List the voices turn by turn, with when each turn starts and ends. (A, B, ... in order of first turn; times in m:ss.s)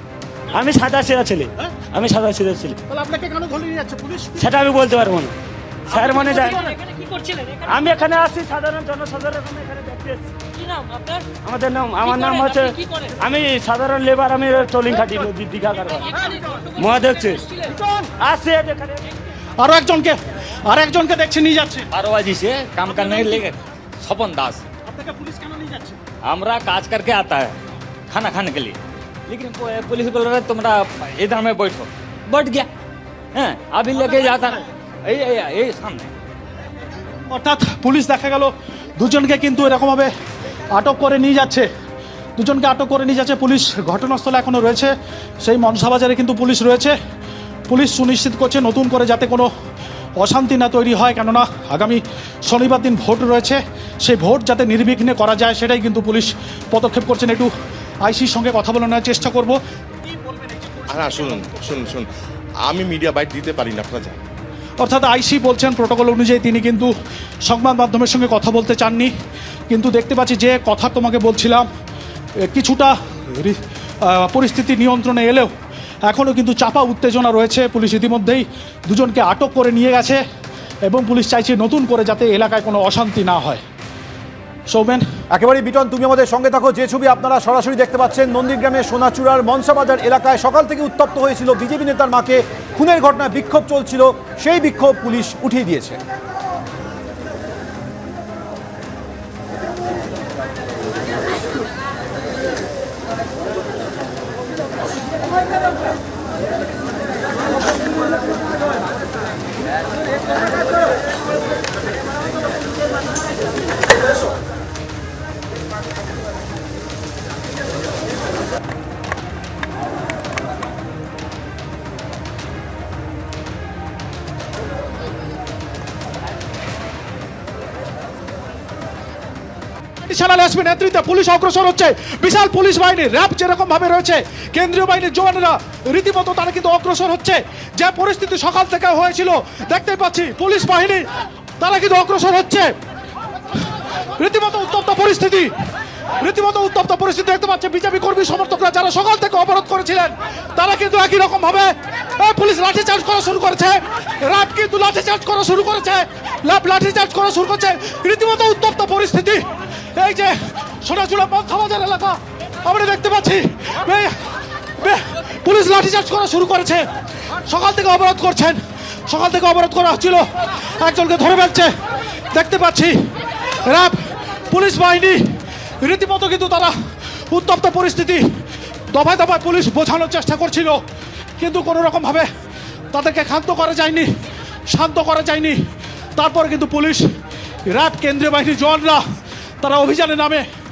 0:00.5-0:02.8 A
0:02.9-0:04.8 B
0:04.4-0:05.4 A
0:05.9-0:06.7 A
0:06.1-0:06.8 B
0:07.6-0:10.4 A
0:11.3-0:17.5 A
0:17.6-0:18.1 B
0:18.2-0:19.1 A
0:19.6-0:21.9 B
0:21.9-0:24.6 C
0:22.9-0:23.4 B
0:24.8-0:26.0 B
0:26.2-0:27.5 C
0:28.1-0:32.7 C
0:33.3-0:36.1 C
0:37.3-0:40.1 B
0:40.7-0:41.7 B
0:42.4-0:47.0 B
0:47.7-0:49.5 B
0:50.2-0:57.5 B
0:58.0-0:59.6 B
1:00.9-1:02.1 D
1:02.6-1:04.2 D
1:04.8-1:06.9 B
1:07.5-1:09.1 B
1:09.7-1:11.7 B
1:12.5-1:15.5 B
1:16.0-1:20.2 B
1:20.8-1:23.6 B
1:24.7-1:25.1 B
1:25.3-1:36.0 E
2:10.0-2:21.0 B
2:21.6-2:22.7 B
2:24.1-2:25.5 B
2:26.1-2:51.7 B
2:52.3-3:00.8 B
3:01.4-3:02.3 B
3:02.9-3:04.1 B
3:04.7-3:05.6 B
3:06.2-3:07.0 B
3:07.7-3:09.0 B
3:09.6-3:10.5 B